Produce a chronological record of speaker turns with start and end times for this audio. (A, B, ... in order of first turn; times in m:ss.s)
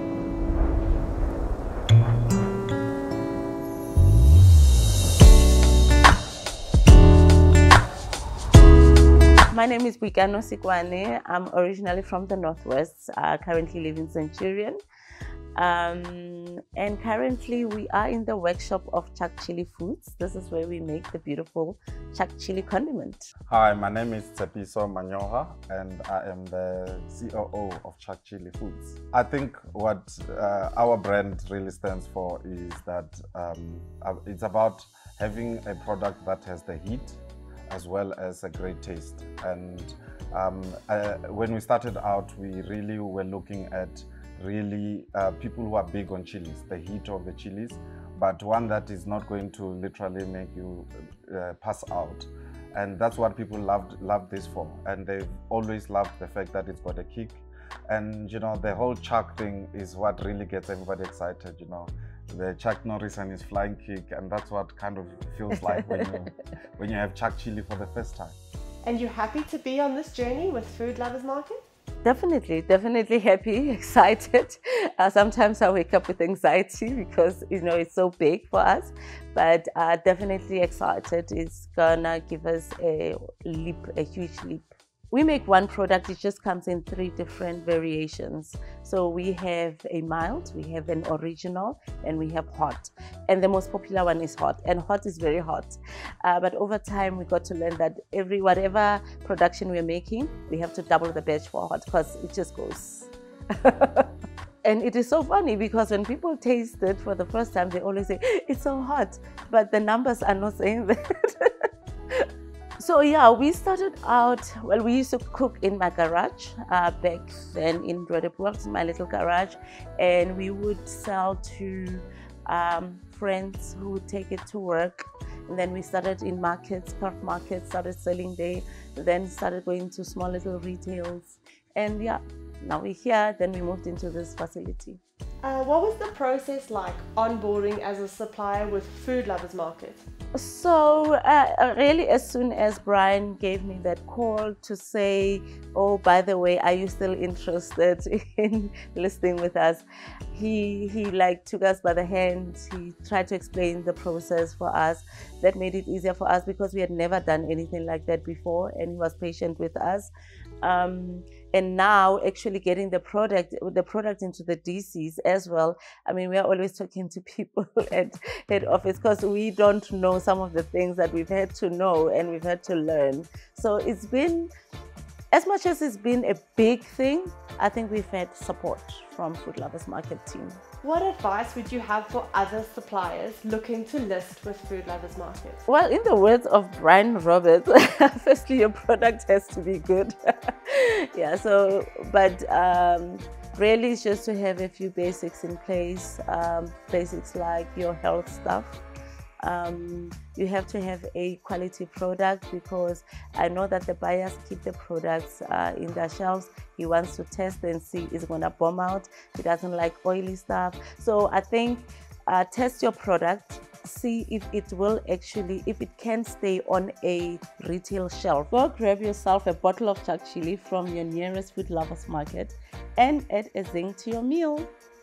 0:09.5-0:14.8 A
0:15.6-0:23.3 A
0:23.5-1:08.4 B
1:05.6-1:06.2 A
1:08.8-1:11.6 C
1:12.0-1:44.1 A
1:44.6-1:51.5 A
1:52.8-2:15.0 A
2:15.4-2:20.1 C
2:20.4-2:40.1 A
2:40.6-2:54.5 A
2:55.3-3:00.6 A
3:00.8-3:05.6 C
3:05.7-3:18.8 A
3:19.4-3:44.7 A